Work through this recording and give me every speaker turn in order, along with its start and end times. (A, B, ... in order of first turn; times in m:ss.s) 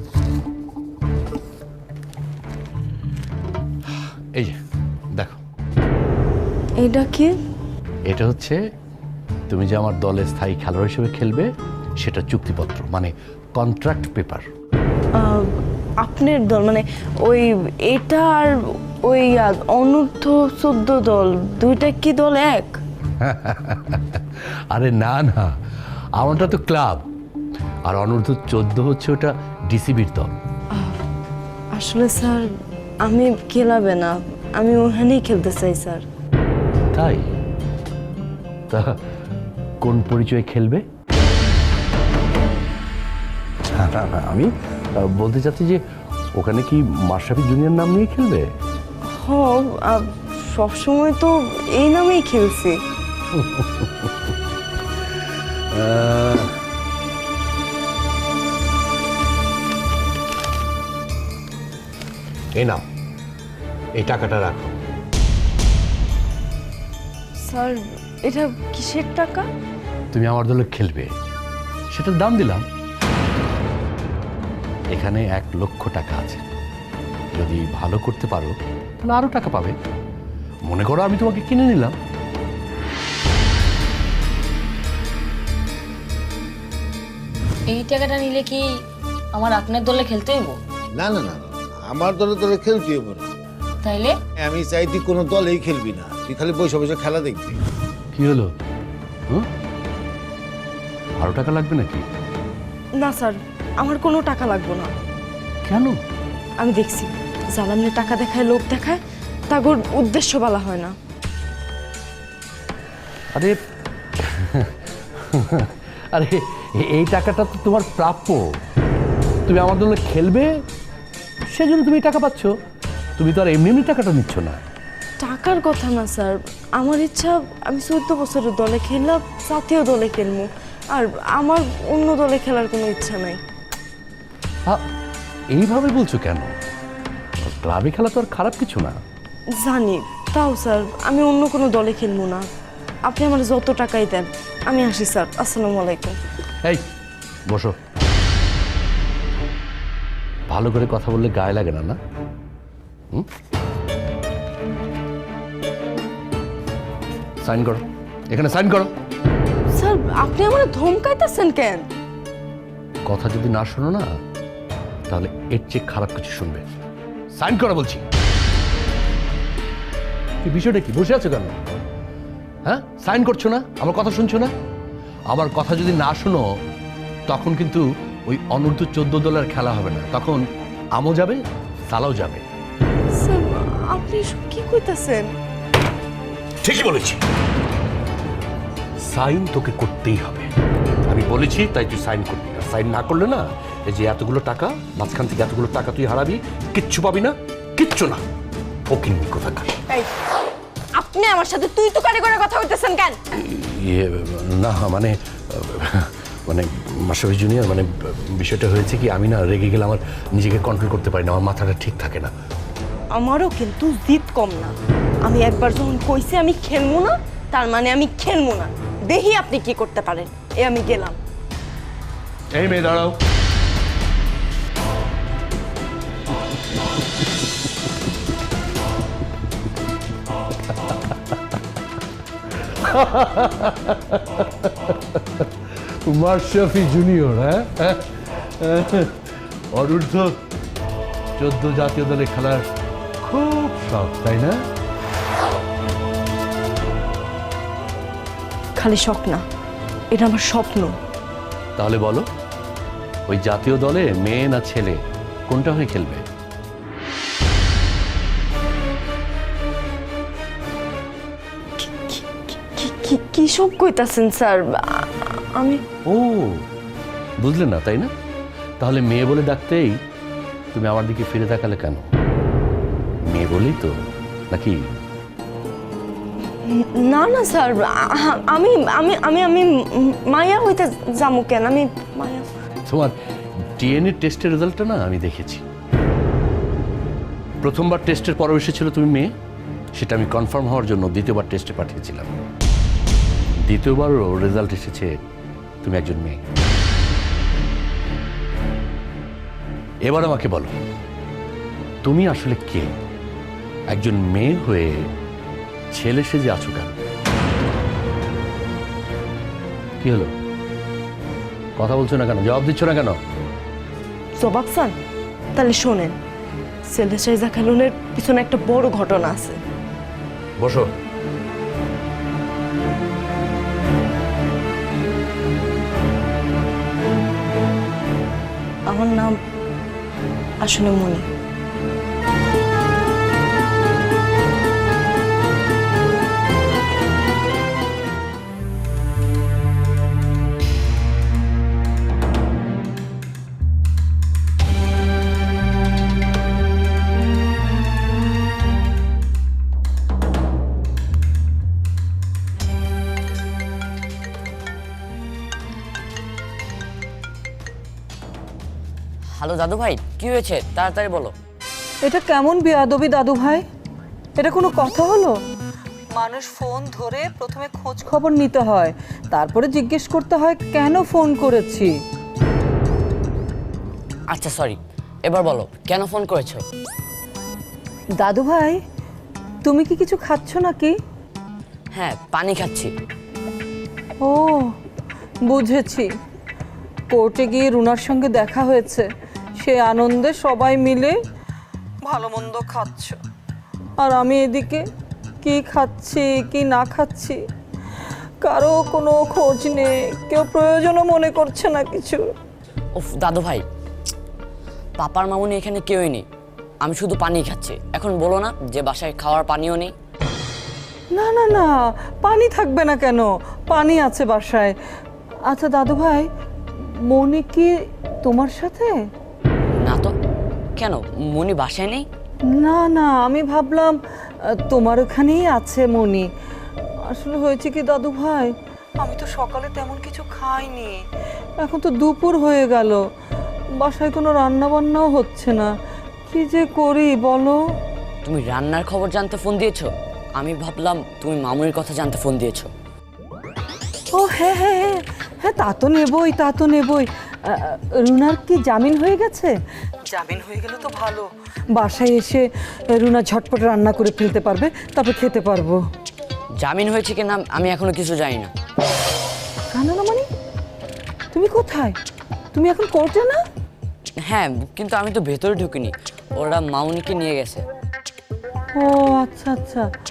0:06.8-0:07.3 A
0:08.1-0:08.6 B
0:09.5-0:11.5 B
0:12.0-0:14.5 B
0:15.1-0:15.5 A
0:16.0-0:22.8 A
0:23.2-0:25.5 B
0:26.2-0:27.0 B
0:27.9-0:30.4 B
0:30.7-0:31.0 A
0:31.7-0:32.4 A
0:33.0-0:36.0 A
0:36.9-0:37.3 B
0:39.8-0:40.8 B
0:43.8-0:45.8 B
0:46.4-0:48.5 B
0:49.1-0:52.8 A
0:53.3-0:54.1 B
0:55.7-0:56.5 B
1:02.6-1:02.8 B
1:04.0-1:04.7 B
1:07.4-1:09.5 A
1:10.1-1:11.1 B
1:11.9-1:12.7 B
1:14.9-1:16.4 B
1:17.4-1:19.8 B
1:20.7-1:22.0 B
1:27.7-1:28.6 C
1:29.4-1:30.6 C
1:31.0-1:33.3 D
1:33.9-1:34.1 C
1:34.4-1:37.6 D
1:38.1-1:38.5 B
1:41.2-1:42.0 B
1:43.0-1:44.9 A
1:45.6-1:46.0 B
1:46.6-1:49.0 A
1:49.5-1:51.0 A
1:54.2-1:58.4 B
1:59.5-2:00.6 B
2:01.5-2:02.5 B
2:03.2-2:04.6 B
2:05.2-2:13.4 A
2:15.5-2:16.5 B
2:17.4-2:19.0 B
2:19.6-2:22.5 A
2:23.1-2:26.2 A
2:27.5-2:27.8 B
2:30.5-2:32.0 B
2:37.4-2:38.9 B
2:39.7-2:41.9 A
2:43.1-2:44.1 B
2:45.1-2:46.6 B
2:47.4-2:48.0 B
2:50.4-2:51.6 B
2:52.6-2:54.5 B
2:55.3-2:56.4 B
2:57.3-3:00.4 B
3:01.0-3:02.4 B
3:03.2-3:05.3 A
3:06.6-3:07.2 B
3:09.1-3:10.5 B
3:11.1-3:18.2 B
3:18.9-3:19.8 B
3:21.0-3:23.2 A
3:23.3-3:32.3 B
3:33.1-3:41.2 A
3:42.6-3:43.2 B
3:52.6-3:59.1 B
3:59.7-4:00.4 B
4:01.4-4:02.6 B
4:03.2-4:04.6 B
4:08.8-4:09.4 A
4:10.1-4:10.9 A
4:11.8-4:12.2 B
4:13.3-4:16.2 B
4:21.8-4:25.8 A
4:26.1-4:26.6 B
4:27.4-4:28.1 B
4:28.8-4:30.0 B
4:30.7-4:32.0 B
4:33.3-4:33.9 B
4:34.5-4:34.8 B
4:36.7-4:42.5 A
4:42.9-4:43.1 B
4:43.8-4:45.6 B
4:47.6-4:49.3 B
4:50.0-4:52.3 B
4:53.7-4:55.1 B
4:55.8-4:56.4 B
5:00.0-5:00.8 B
5:02.0-5:02.9 B
5:03.9-5:05.0 B
5:05.9-5:07.0 B
5:10.0-5:10.3 B
5:11.8-5:13.2 B
5:14.4-5:14.9 A
5:15.6-5:16.2 A
5:16.9-5:19.6 A
5:20.6-5:20.9 B
5:28.9-5:29.3 A
5:30.6-5:31.3 A
5:59.4-6:01.3 E
6:02.0-6:03.6 F
6:04.4-6:05.4 F
6:06.1-6:11.9 F
6:14.3-6:16.6 E
6:18.2-6:18.8 F
6:19.6-6:20.9 F
6:21.9-6:22.9 E
6:24.2-6:24.7 F
6:25.5-6:26.1 F
6:27.1-6:31.2 F
6:32.0-6:33.2 F
6:34.0-6:34.8 F
6:35.4-6:37.4 F
6:38.4-6:42.3 F
6:43.0-6:43.6 E
6:45.0-6:46.2 E
6:46.8-6:49.9 E
6:51.1-6:54.8 F
6:55.5-6:56.3 F
6:57.1-6:57.7 F
6:58.2-6:58.9 F
6:59.8-7:00.1 E
7:00.8-7:02.0 E
7:02.5-7:06.3 F
7:07.1-7:11.0 F
7:11.6-7:13.0 F
7:13.8-7:15.7 F
7:16.3-7:17.6 F
7:18.2-7:22.7 E
7:24.1-7:29.5 F
7:30.1-7:35.8 F
7:36.6-7:38.5 E
7:39.7-7:40.3 F
7:41.3-7:42.0 F
7:42.5-7:43.4 F
7:44.2-7:47.6 E
7:48.8-7:49.9 F